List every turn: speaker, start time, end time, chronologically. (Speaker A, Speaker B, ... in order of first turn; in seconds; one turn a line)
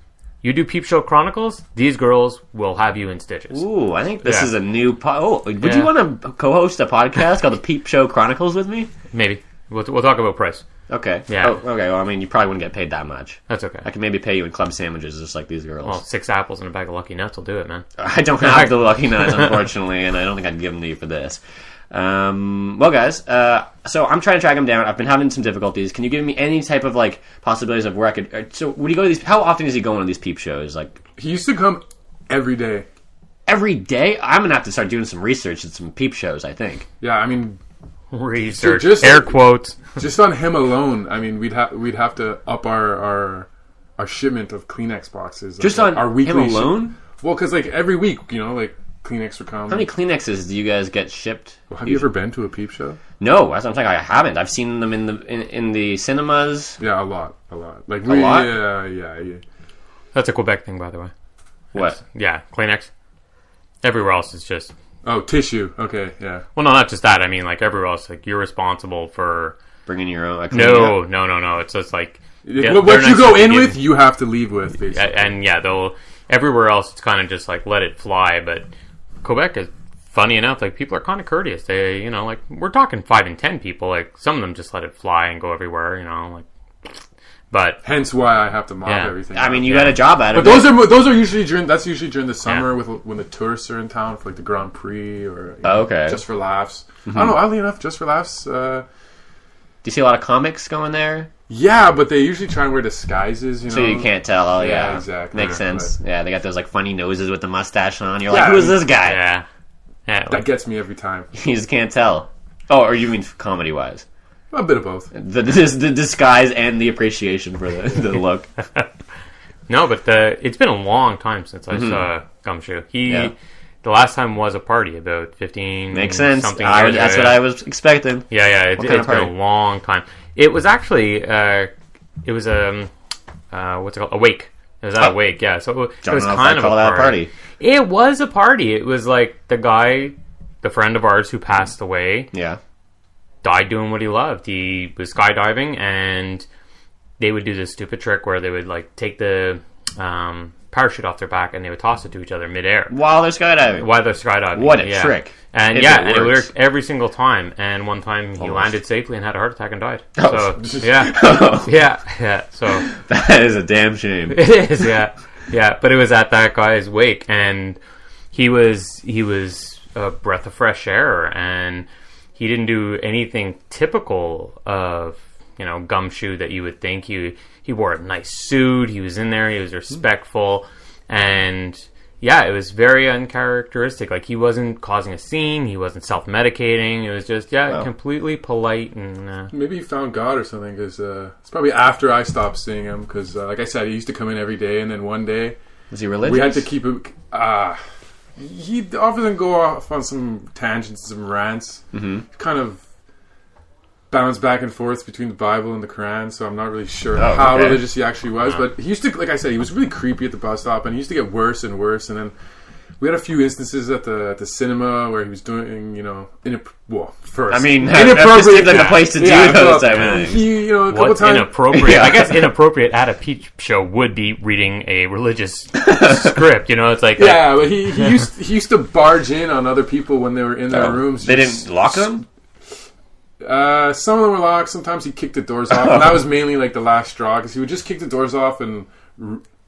Speaker A: 0.4-3.6
Speaker B: 3.5-8.9
Speaker A: 4.2-4.5
Speaker A: 5.6-5.9
Speaker A: 9.1-10.6
Speaker B: 10.9-16.0
Speaker A: 11.3-11.6
Speaker A: 13.5-13.9
Speaker A: 15.8-17.9
Speaker B: 18.0-21.4
Speaker A: 18.4-18.7
Speaker B: 21.9-31.0
Speaker C: 31.2-32.9
Speaker B: 33.5-36.9
Speaker C: 37.0-37.6
Speaker A: 38.1-39.8
Speaker C: 38.5-39.4
Speaker C: 40.0-43.5
Speaker C: 44.0-49.9
Speaker B: 45.6-47.0
Speaker B: 49.7-52.1
Speaker C: 51.7-53.0
Speaker B: 53.2-56.8
Speaker C: 56.8-59.4
Speaker B: 58.0-58.6
Speaker A: 60.1-61.1
Speaker B: 61.7-62.0
Speaker A: 61.7-62.9
Speaker A: 63.8-64.7
Speaker C: 65.0-66.4
Speaker A: 66.5-69.6
Speaker B: 69.9-71.0
Speaker A: 70.5-73.8
Speaker C: 72.5-75.3
Speaker A: 74.9-78.7
Speaker A: 79.2-87.0
Speaker A: 87.5-87.8
Speaker C: 87.8-98.8
Speaker A: 88.8-89.1
Speaker B: 89.3-90.9
Speaker A: 89.7-90.0
Speaker B: 95.6-96.2
Speaker B: 97.1-97.4
Speaker B: 99.8-101.3
Speaker C: 101.5-106.0
Speaker B: 103.7-109.2
Speaker C: 108.3-108.8
Speaker A: 109.0-109.5
Speaker A: 110.1-110.5
Speaker C: 110.3-111.3
Speaker B: 111.3-114.0
Speaker C: 114.5-115.1
Speaker B: 115.1-118.5
Speaker A: 119.7-127.4
Speaker B: 121.7-122.0
Speaker B: 125.9-129.3
Speaker A: 128.3-131.7
Speaker A: 132.2-132.9
Speaker A: 133.5-142.3
Speaker B: 136.0-137.3
Speaker B: 142.3-142.6
Speaker A: 143.4-146.5
Speaker A: 147.2-152.9
Speaker B: 152.9-153.9
Speaker A: 153.8-162.9
Speaker B: 154.6-156.5
Speaker B: 158.4-158.7
Speaker B: 160.2-161.8
Speaker B: 162.9-164.5
Speaker A: 164.3-167.8
Speaker A: 168.3-189.5
Speaker C: 189.5-195.6
Speaker B: 195.9-196.7
Speaker C: 196.2-197.8
Speaker C: 198.4-202.8
Speaker B: 201.9-202.2
Speaker C: 204.1-212.3
Speaker B: 207.2-207.9
Speaker C: 213.0-221.5
Speaker B: 217.5-220.5
Speaker A: 218.7-219.1
Speaker A: 220.8-227.7
Speaker B: 221.7-222.5
Speaker B: 225.8-226.3
Speaker C: 227.2-232.2
Speaker B: 230.7-232.2
Speaker C: 233.4-239.4
Speaker B: 235.7-236.3